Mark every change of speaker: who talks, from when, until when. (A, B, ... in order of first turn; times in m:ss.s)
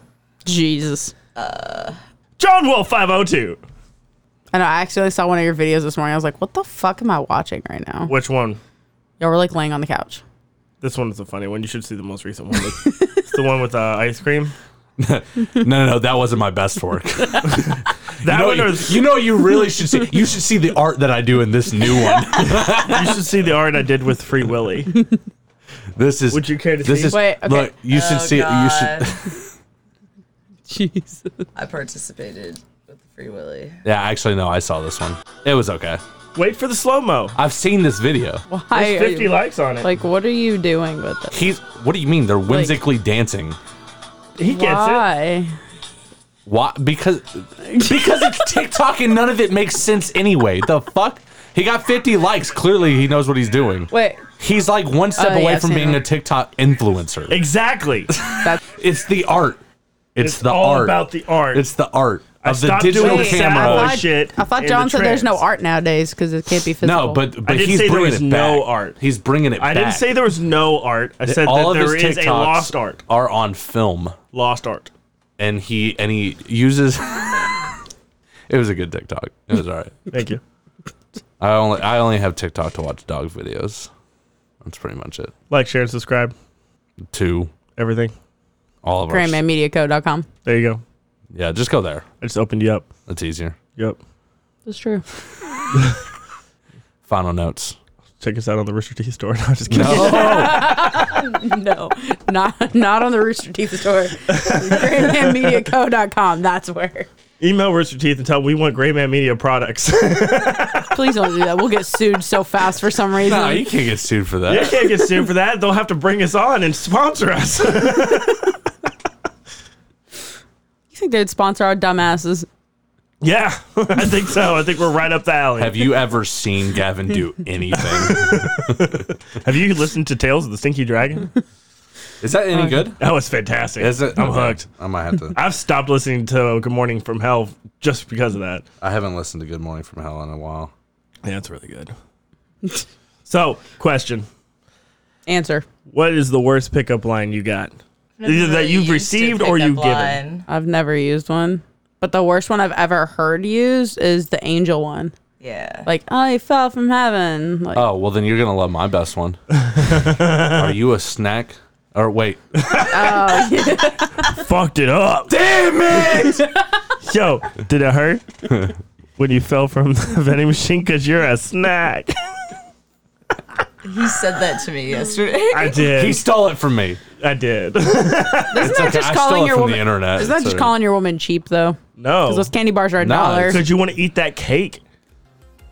0:00.4-0:01.1 A
0:01.4-0:02.0 B
0:02.4-0:03.6 C
0:04.5-0:08.1 A
0:08.0-0:08.6 C
0:09.2-0:10.2 A
0:10.8-0:14.5 C
0:15.0-0:23.2 D
0:18.2-0:19.0 C
0:22.9-0:24.9 C
0:25.9-0:29.3 D
0:26.3-0:27.2 C
0:27.1-0:27.7 A
0:27.9-0:29.2 B
0:30.7-0:31.4 A
0:31.5-0:33.8 B
0:33.8-0:36.0 D
0:36.3-0:37.4 C
0:37.4-0:38.4 D
0:38.5-0:41.5 A
0:38.7-0:39.9 C
0:41.3-0:43.6 D
0:44.4-0:45.1 C
0:44.5-0:45.5 A
0:46.4-0:57.4 D
0:47.6-0:48.4 A
0:53.9-0:54.2 A
0:55.2-0:56.0 A
0:57.3-0:58.1 C
0:58.2-0:59.6 D
1:00.1-1:04.0 D
1:00.2-1:01.6 C
1:02.4-1:05.4 C
1:02.9-1:07.2 A
1:06.8-1:10.1 D
1:07.4-1:09.0 C
1:09.6-1:13.0 C
1:11.2-1:14.2 D
1:14.3-1:14.9 C
1:15.4-1:17.7 D
1:18.5-1:20.0 D
1:20.1-1:20.4 C
1:21.4-1:23.9 D
1:24.6-1:25.3 D
1:25.5-1:26.3 C
1:27.1-1:27.5 D
1:27.7-1:28.1 C
1:28.8-1:29.4 D
1:29.1-1:30.3 A
1:30.4-1:30.8 C
1:31.3-1:32.0 D
1:32.2-1:32.9 C
1:33.1-1:33.6 D
1:34.6-1:35.0 A
1:37.0-1:37.8 D
1:38.2-1:40.6 C
1:39.7-1:40.9 D
1:39.8-1:47.1 A
1:44.3-1:45.6 C
1:47.4-1:50.9 C
1:50.9-1:53.7 A
1:53.2-1:54.8 D
1:54.5-1:58.5 C
2:00.9-2:02.5 A
2:03.2-2:05.8 C
2:05.6-2:09.0 D
2:07.8-2:11.3 C
2:12.2-2:13.0 D
2:13.0-2:14.6 C
2:13.8-2:15.4 D
2:15.3-2:18.6 C
2:18.8-2:20.7 D
2:21.2-2:21.9 C
2:23.2-2:24.2 C
2:25.3-2:25.6 A
2:25.9-2:27.7 C
2:28.2-2:30.4 B
2:28.2-2:30.2 C
2:30.5-2:35.1 A
2:35.4-2:35.9 B
2:35.8-2:37.8 A
2:37.7-2:39.4 D
2:39.6-2:40.7 C
2:40.4-2:43.1 D
2:42.6-2:43.0 C
2:42.9-2:44.3 A
2:44.2-2:45.4 C
2:45.3-2:46.5 D
2:47.0-2:48.2 C
2:49.2-2:52.2 C
2:53.8-2:56.1 B
2:55.5-2:56.2 C
2:55.9-2:57.0 D
2:57.2-2:58.7 C
2:58.5-3:03.6 A
2:58.6-3:00.7 D
3:02.0-3:02.5 C
3:03.0-3:03.6 D
3:03.4-3:04.8 C